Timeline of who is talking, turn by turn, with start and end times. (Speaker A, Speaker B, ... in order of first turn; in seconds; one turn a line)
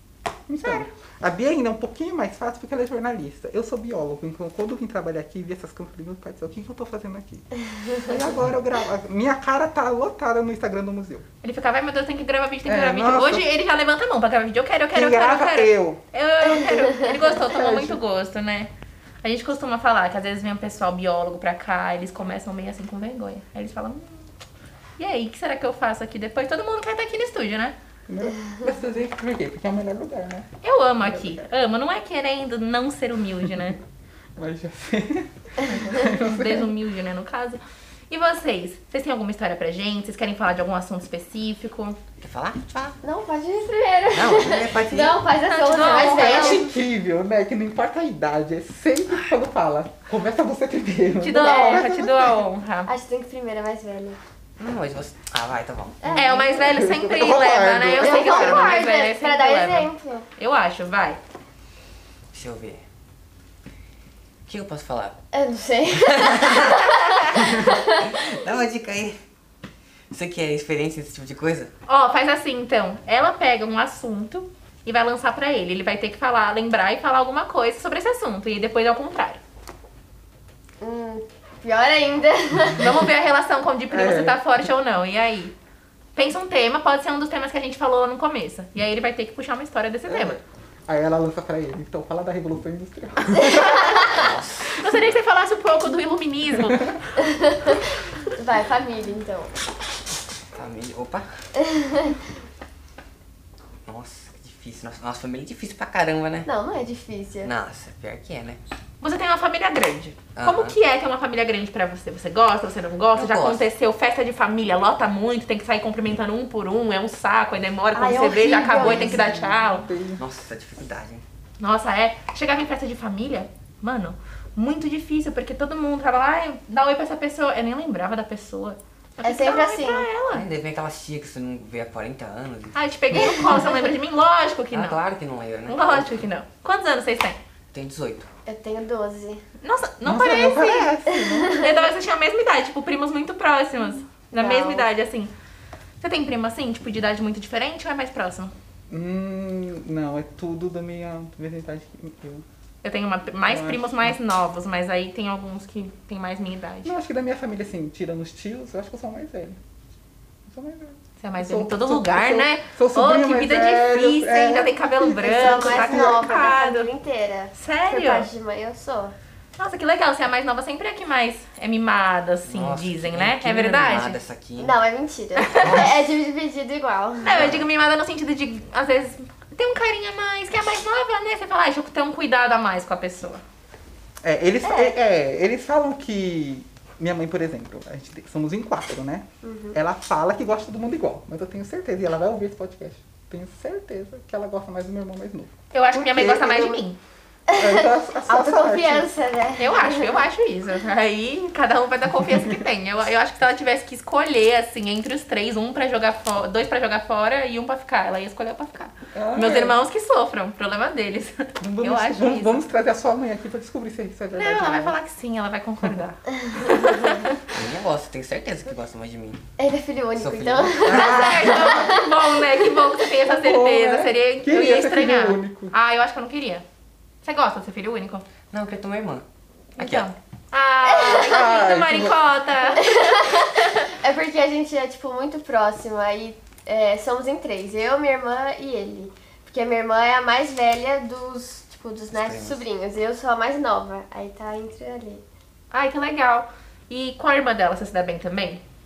Speaker A: 0.5-11.2
Speaker B: 11.4-18.7
Speaker A: 12.6-13.5
Speaker A: 14.9-16.0
Speaker C: 16.6-17.1
Speaker A: 17.4-18.0
Speaker B: 19.2-24.3
Speaker B: 25.0-27.8
Speaker A: 28.1-31.5
Speaker B: 30.6-33.8
Speaker A: 34.4-36.7
Speaker B: 35.6-42.0
Speaker D: 42.2-43.0
Speaker C: 43.0-46.6
Speaker D: 44.1-45.2
Speaker B: 45.4-46.7
Speaker A: 45.8-52.4
Speaker B: 51.2-52.9
Speaker C: 51.3-51.9
Speaker C: 52.9-54.2
Speaker D: 54.6-56.3
Speaker C: 56.0-56.6
Speaker B: 56.1-61.2
Speaker A: 56.5-58.8
Speaker C: 58.0-60.3
Speaker D: 62.3-62.8
Speaker D: 64.5-65.2
Speaker C: 65.3-68.0
Speaker D: 66.5-69.2
Speaker D: 70.1-71.7
Speaker B: 71.9-79.4
Speaker C: 80.8-82.9
Speaker B: 82.8-85.5
Speaker A: 83.9-84.4
Speaker B: 86.1-90.4
Speaker A: 90.1-94.1
Speaker B: 93.6-97.3
Speaker D: 94.0-95.2
Speaker C: 98.4-99.5
Speaker D: 100.5-101.2
Speaker C: 101.7-102.1
Speaker D: 103.9-106.5
Speaker C: 106.4-107.5
Speaker D: 107.4-108.6
Speaker B: 109.0-119.9
Speaker D: 110.3-110.8
Speaker D: 113.1-113.7
Speaker C: 117.9-119.4
Speaker A: 118.6-120.2
Speaker D: 120.2-121.2
Speaker B: 121.6-130.4
Speaker C: 129.2-130.1
Speaker D: 130.3-133.6
Speaker B: 132.7-135.0
Speaker D: 134.7-136.2
Speaker B: 135.7-137.4
Speaker D: 137.7-138.3
Speaker C: 138.4-139.4
Speaker B: 139.6-140.9
Speaker A: 140.0-141.6
Speaker C: 141.2-141.8
Speaker B: 141.5-145.3
Speaker C: 144.3-144.9
Speaker B: 146.0-148.5
Speaker A: 148.9-152.4
Speaker B: 152.8-156.9
Speaker A: 153.5-154.2
Speaker A: 156.8-159.6
Speaker A: 160.5-166.4
Speaker B: 161.2-166.9
Speaker C: 165.2-169.1
Speaker B: 167.6-168.3
Speaker B: 169.6-174.2
Speaker D: 172.4-174.8
Speaker C: 174.6-177.6
Speaker B: 175.4-175.9
Speaker D: 175.6-176.1
Speaker B: 177.2-183.4
Speaker D: 177.3-177.6
Speaker A: 184.2-196.8
Speaker C: 184.6-184.9
Speaker C: 189.4-189.8
Speaker B: 195.7-197.0
Speaker C: 197.5-200.2
Speaker A: 197.5-199.1
Speaker B: 199.6-212.6
Speaker A: 209.1-209.8
Speaker A: 211.6-214.9
Speaker B: 214.3-217.4
Speaker D: 217.5-219.4
Speaker C: 219.6-222.2
Speaker D: 220.2-221.9
Speaker B: 220.8-226.6
Speaker A: 220.9-221.7
Speaker A: 223.3-225.7
Speaker B: 227.2-228.2
Speaker D: 228.5-229.2
Speaker B: 229.8-233.9
Speaker D: 229.8-230.1
Speaker C: 230.8-231.4
Speaker A: 231.2-232.2
Speaker C: 232.7-245.2
Speaker D: 242.1-242.6
Speaker B: 245.7-248.6